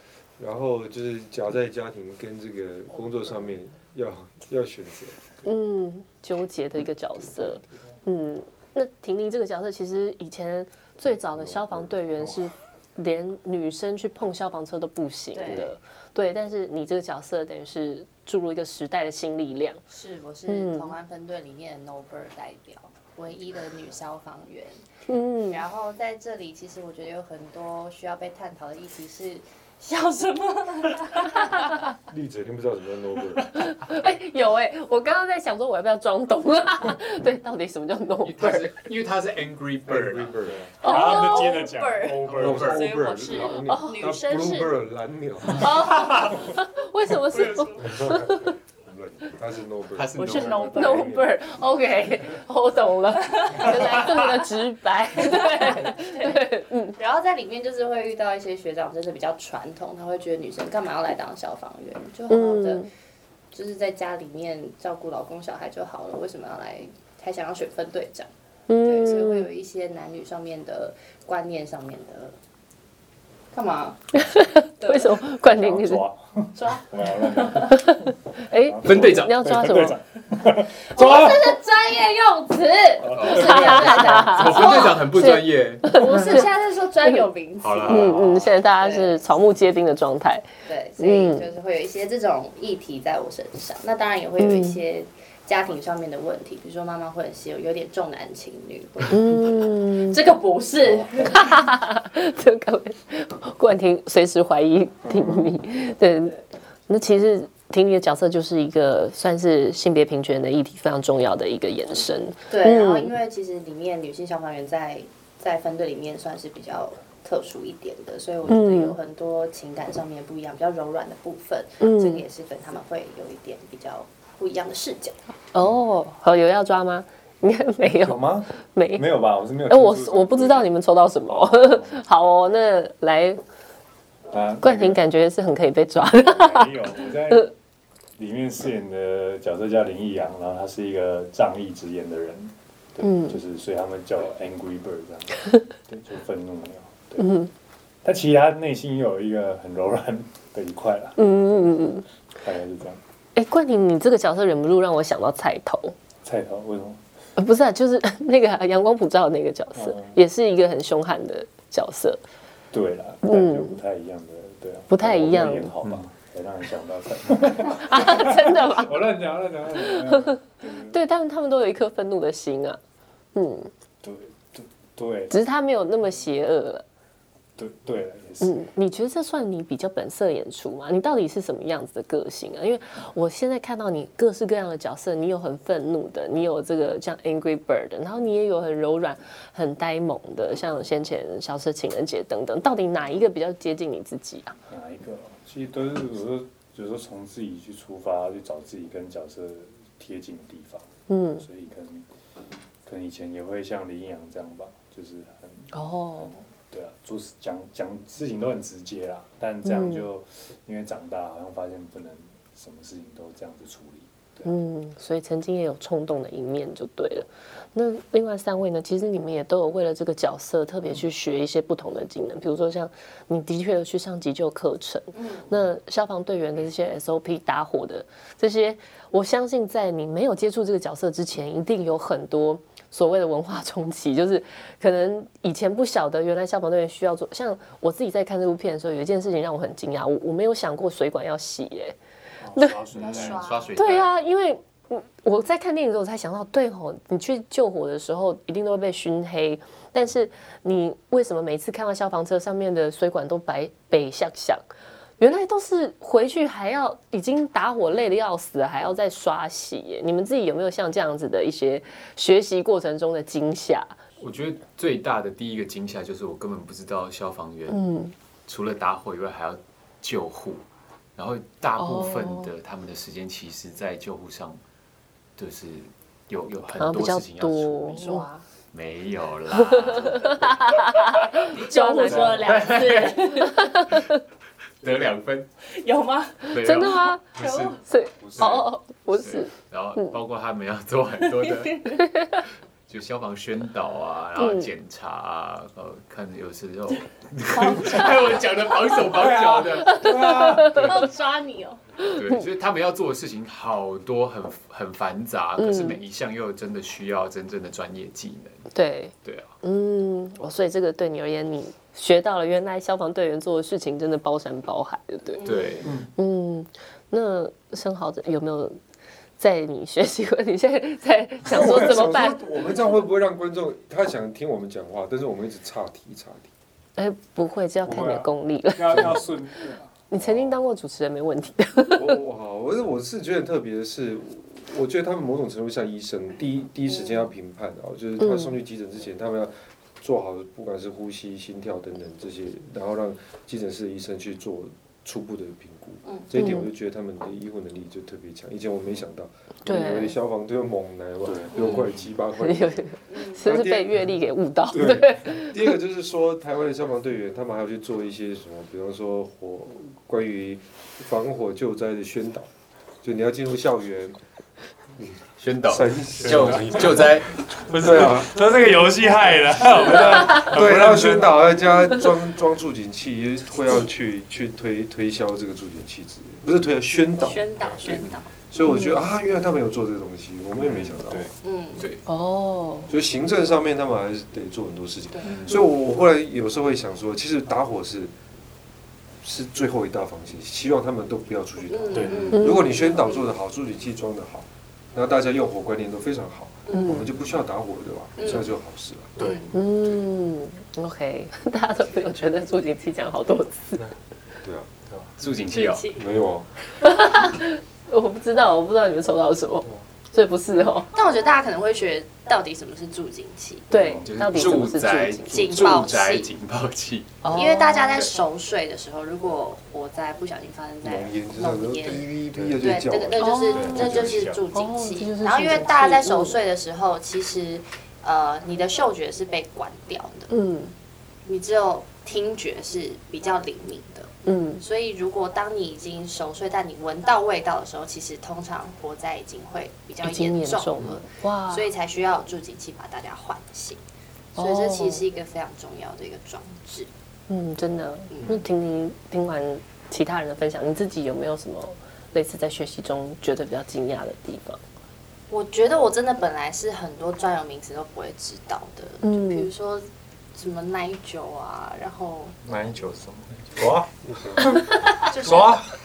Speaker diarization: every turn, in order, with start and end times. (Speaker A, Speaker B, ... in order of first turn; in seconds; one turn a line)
Speaker A: 0.4-5.2
Speaker B: 5.4-19.8
Speaker A: 11.5-11.9
Speaker C: 15.3-15.7
Speaker C: 19.9-24.8
Speaker B: 20.5-20.9
Speaker B: 25.1-25.6
Speaker C: 25.5-31.8
Speaker A: 32.1-33.5
Speaker B: 33.5-38.4
Speaker D: 38.2-40.5
Speaker A: 39.9-40.7
Speaker E: 40.5-42.6
Speaker B: 40.8-41.5
Speaker C: 40.8-44.7
Speaker D: 42.1-42.9
Speaker A: 42.3-45.9
Speaker B: 43.7-44.0
Speaker B: 45.5-48.5
Speaker D: 45.9-46.3
Speaker C: 47.3-47.9
Speaker A: 47.8-50.5
Speaker D: 50.0-51.1
Speaker C: 50.2-51.3
Speaker E: 50.2-51.3
Speaker B: 50.7-57.0
Speaker C: 53.3-54.4
Speaker C: 55.2-62.9
Speaker B: 62.3-62.9
Speaker C: 63.5-68.3
Speaker B: 68.7-69.5
Speaker C: 68.8-72.3
Speaker C: 73.5-74.0
Speaker B: 74.1-76.0
Speaker C: 74.8-75.2
Speaker E: 75.4-81.5
Speaker C: 76.5-77.7
Speaker B: 77.6-80.0
Speaker D: 78.8-79.3
Speaker C: 80.9-85.1
Speaker E: 83.0-84.0
Speaker D: 83.1-86.2
Speaker B: 83.3-86.5
Speaker C: 85.9-88.2
Speaker D: 87.6-88.5
Speaker B: 87.9-90.5
Speaker C: 88.8-89.2
Speaker C: 90.7-101.6
Speaker B: 91.0-91.5
Speaker B: 94.4-94.8
Speaker B: 99.1-100.2
Speaker B: 101.2-106.4
Speaker E: 105.1-105.5
Speaker B: 106.9-113.1
Speaker C: 112.5-125.2
Speaker B: 118.5-119.0
Speaker B: 121.8-122.2
Speaker B: 125.5-129.1
Speaker E: 127.8-130.7
Speaker B: 129.7-133.4
Speaker E: 131.3-132.1
Speaker E: 134.3-135.0
Speaker B: 134.6-136.7
Speaker E: 136.2-137.5
Speaker E: 138.2-147.4
Speaker B: 143.0-143.4
Speaker B: 147.2-147.5
Speaker E: 148.0-151.8
Speaker B: 151.2-152.1
Speaker E: 152.4-153.0
Speaker B: 153.4-156.0
Speaker E: 156.2-157.0
Speaker B: 157.4-162.2
Speaker E: 159.8-160.2
Speaker E: 162.7-171.0
Speaker B: 163.2-163.8
Speaker B: 164.9-165.7
Speaker B: 167.8-169.0
Speaker B: 169.8-172.8
Speaker B: 173.3-173.7
Speaker E: 174.0-175.3
Speaker B: 175.3-176.8
Speaker E: 177.6-178.6
Speaker B: 178.4-194.6
Speaker E: 194.7-202.1
Speaker B: 201.1-201.4
Speaker E: 202.8-205.7
Speaker B: 205.7-206.3
Speaker E: 206.2-214.5
Speaker B: 209.7-210.1
Speaker B: 214.4-242.0
Speaker C: 225.2-225.5
Speaker E: 242.4-243.7
Speaker B: 242.5-242.8
Speaker C: 242.9-243.8
Speaker D: 243.0-244.1
Speaker B: 243.8-254.6
Speaker B: 255.2-264.0
Speaker D: 264.2-267.8
Speaker B: 267.7-268.1
Speaker D: 268.5-274.6
Speaker B: 271.8-272.5
Speaker D: 275.4-278.1
Speaker B: 276.8-278.3
Speaker C: 277.9-278.4
Speaker D: 278.7-280.7
Speaker B: 279.5-282.5
Speaker C: 281.3-283.6
Speaker E: 282.0-282.5
Speaker D: 282.3-284.0
Speaker B: 283.2-284.2
Speaker D: 284.8-285.5
Speaker C: 285.7-286.5
Speaker D: 286.5-292.1
Speaker B: 286.6-290.1
Speaker C: 287.4-287.8
Speaker E: 288.3-288.5
Speaker C: 291.2-291.9
Speaker B: 291.9-292.4
Speaker D: 292.9-300.1
Speaker B: 294.4-294.7
Speaker E: 297.6-297.9
Speaker C: 297.6-298.1
Speaker E: 299.0-301.1
Speaker B: 299.9-300.9
Speaker D: 300.7-301.0
Speaker C: 300.7-301.8
Speaker B: 302.0-302.4
Speaker D: 302.0-308.6
Speaker B: 305.6-306.0
Speaker B: 308.7-315.4
Speaker D: 309.2-309.5
Speaker C: 315.4-315.9
Speaker D: 315.4-316.0
Speaker B: 316.2-318.8
Speaker B: 319.4-322.4
Speaker A: 321.4-326.5
Speaker B: 327.0-329.3
Speaker E: 327.8-329.9
Speaker B: 330.1-332.2
Speaker A: 330.2-330.5
Speaker A: 331.9-352.9
Speaker C: 336.9-337.2
Speaker B: 338.2-338.6
Speaker C: 346.1-346.3
Speaker B: 346.4-346.7
Speaker B: 349.6-350.2
Speaker E: 351.2-351.6
Speaker C: 351.6-351.9
Speaker B: 352.4-355.7
Speaker C: 353.1-353.4
Speaker A: 353.4-354.1
Speaker A: 354.7-362.5
Speaker A: 363.0-364.2
Speaker D: 365.4-368.1
Speaker A: 365.7-367.2
Speaker E: 366.2-366.6
Speaker E: 367.6-371.4
Speaker A: 367.7-368.3
Speaker A: 370.4-381.3
Speaker C: 377.2-378.3
Speaker D: 377.9-378.2
Speaker B: 378.6-379.0
Speaker D: 380.6-382.0
Speaker C: 381.4-381.9
Speaker B: 382.1-382.9
Speaker A: 382.9-388.1
Speaker C: 385.1-385.6
Speaker D: 385.2-385.6
Speaker A: 389.2-399.2
Speaker C: 391.7-393.3
Speaker E: 391.9-392.4
Speaker B: 392.3-392.7
Speaker B: 396.7-397.0
Speaker C: 398.2-398.4
Speaker E: 399.2-399.5
Speaker B: 399.5-403.9
Speaker A: 404.4-404.7
Speaker D: 405.2-405.9
Speaker C: 405.5-406.1
Speaker A: 406.0-406.5
Speaker B: 406.8-410.9
Speaker C: 410.9-413.7
Speaker B: 413.7-415.6
Speaker D: 413.9-417.2
Speaker C: 415.3-416.3
Speaker B: 417.2-418.0
Speaker C: 417.3-430.3
Speaker A: 420.8-424.3
Speaker B: 423.2-423.9
Speaker E: 423.5-424.4
Speaker B: 424.5-426.4
Speaker B: 430.3-430.7
Speaker C: 431.3-443.8
Speaker B: 434.2-434.6
Speaker B: 440.0-441.7
Speaker B: 444.4-445.0
Speaker C: 444.4-446.9
Speaker B: 447.3-454.6
Speaker C: 448.1-448.4
Speaker C: 455.3-462.4
Speaker B: 459.0-459.5
Speaker E: 462.4-465.7
Speaker A: 464.0-464.6
Speaker C: 465.1-465.6